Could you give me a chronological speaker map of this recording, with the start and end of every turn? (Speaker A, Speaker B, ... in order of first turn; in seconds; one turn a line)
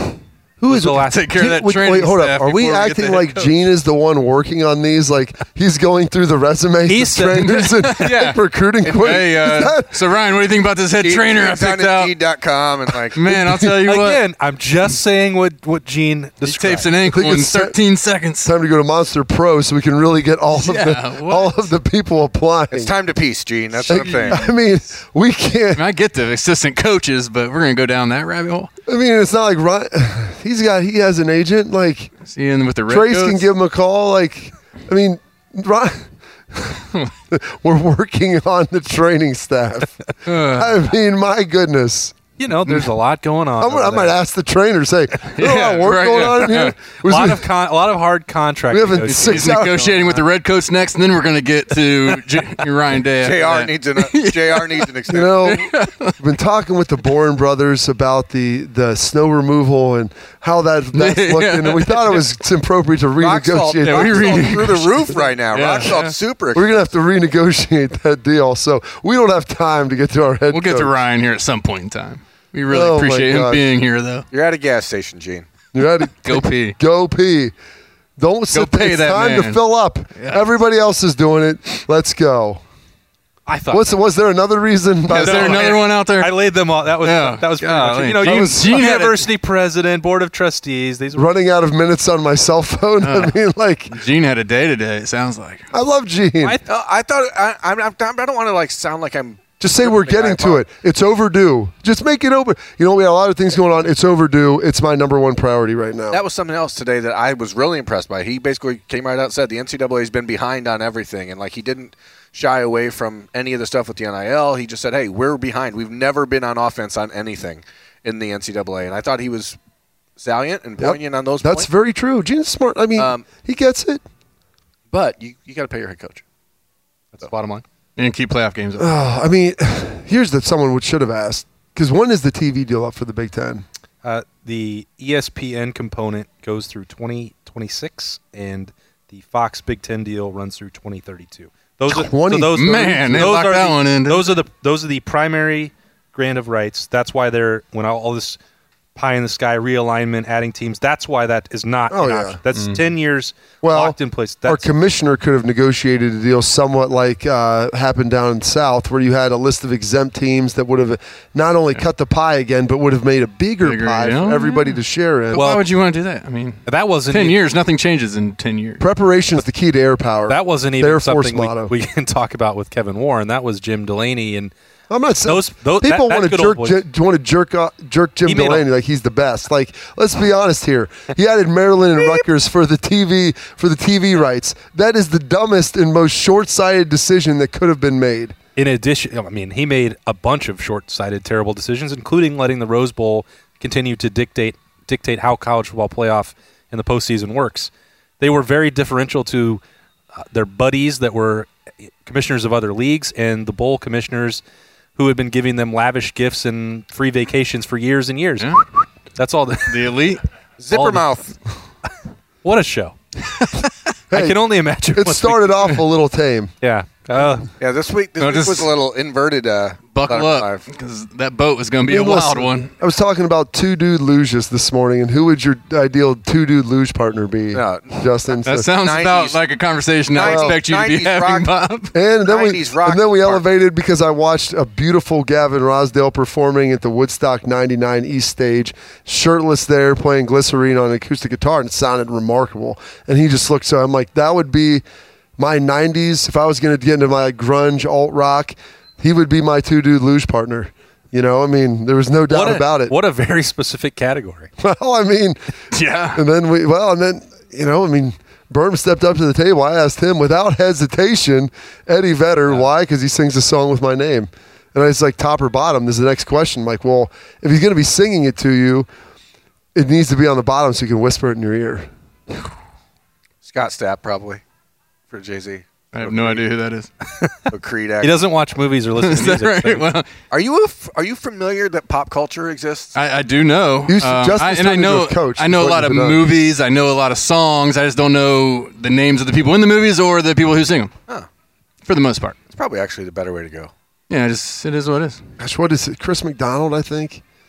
Speaker A: 0.6-10.0
Speaker B: 0.7-1.3
Speaker C: 1.1-3.5
Speaker B: 6.9-7.7
Speaker C: 7.4-12.1
Speaker D: 11.0-13.3
Speaker C: 12.9-14.2
Speaker A: 13.3-13.8
Speaker B: 13.8-16.9
Speaker C: 16.4-18.5
Speaker A: 17.0-17.7
Speaker A: 18.4-22.9
Speaker C: 20.6-21.6
Speaker D: 22.7-24.5
Speaker A: 23.8-25.8
Speaker C: 25.7-28.7
Speaker A: 28.9-32.1
Speaker C: 32.2-33.4
Speaker A: 32.9-42.1
Speaker C: 40.3-40.7
Speaker B: 42.4-44.1
Speaker A: 43.6-47.5
Speaker C: 45.3-46.7
Speaker B: 47.0-49.9
Speaker A: 48.7-50.0
Speaker C: 49.1-54.9
Speaker D: 53.2-55.6
Speaker A: 55.1-64.6
Speaker C: 55.5-56.1
Speaker C: 60.9-62.2
Speaker D: 63.2-66.7
Speaker C: 63.8-66.2
Speaker A: 66.5-70.9
Speaker C: 70.5-74.2
Speaker A: 72.7-73.6
Speaker D: 74.3-75.5
Speaker A: 75.7-77.5
Speaker C: 76.2-76.8
Speaker A: 78.2-82.6
Speaker C: 78.5-79.6
Speaker C: 80.2-80.4
Speaker B: 83.5-83.9
Speaker A: 83.7-85.8
Speaker C: 85.1-86.4
Speaker B: 85.2-91.3
Speaker C: 87.0-89.2
Speaker A: 88.3-88.8
Speaker A: 91.1-94.0
Speaker C: 93.0-93.3
Speaker C: 93.9-95.7
Speaker A: 95.7-96.6
Speaker D: 96.7-100.6
Speaker A: 99.6-106.2
Speaker D: 106.1-119.6
Speaker D: 120.2-121.7
Speaker A: 120.8-124.0
Speaker D: 123.0-123.3
Speaker D: 124.9-126.2
Speaker B: 127.1-127.6
Speaker C: 128.0-128.9
Speaker A: 128.8-133.6
Speaker B: 134.0-148.4
Speaker A: 141.9-143.3
Speaker C: 142.5-144.3
Speaker B: 148.9-154.7
Speaker A: 151.9-152.4
Speaker C: 152.5-152.8
Speaker A: 153.6-165.4
Speaker C: 163.6-164.6
Speaker C: 165.3-168.8
Speaker B: 165.3-165.7
Speaker B: 166.7-167.4
Speaker A: 168.8-171.7
Speaker B: 170.3-174.5
Speaker A: 174.9-188.3
Speaker B: 175.2-176.8
Speaker B: 178.2-178.7
Speaker B: 188.6-199.6
Speaker B: 200.2-201.5
Speaker B: 202.0-204.4
Speaker B: 204.9-208.6
Speaker B: 209.2-210.0
Speaker C: 209.7-210.2
Speaker D: 210.6-211.3
Speaker B: 210.7-211.0
Speaker B: 212.4-213.0
Speaker A: 214.1-214.4
Speaker B: 214.1-215.6
Speaker A: 214.9-216.5
Speaker B: 216.6-217.5
Speaker D: 217.6-220.7
Speaker C: 218.2-218.7
Speaker C: 219.9-222.7
Speaker A: 221.8-228.7
Speaker D: 227.5-229.4
Speaker C: 228.4-231.9
Speaker D: 230.1-231.5
Speaker A: 230.2-230.6
Speaker A: 231.9-244.8
Speaker D: 232.2-233.4
Speaker A: 245.4-252.9
Speaker B: 252.3-254.5
Speaker A: 254.6-255.4
Speaker C: 255.7-256.2
Speaker A: 256.1-268.9
Speaker A: 269.7-271.9
Speaker D: 273.4-274.4
Speaker D: 275.1-276.5
Speaker C: 275.9-276.9
Speaker B: 277.2-277.5
Speaker D: 277.5-278.1
Speaker B: 278.0-279.9
Speaker C: 279.0-280.1
Speaker D: 280.3-282.9
Speaker C: 282.9-290.9
Speaker A: 283.9-286.3
Speaker C: 291.8-292.4
Speaker D: 292.5-293.7
Speaker C: 294.1-295.2
Speaker A: 295.4-297.2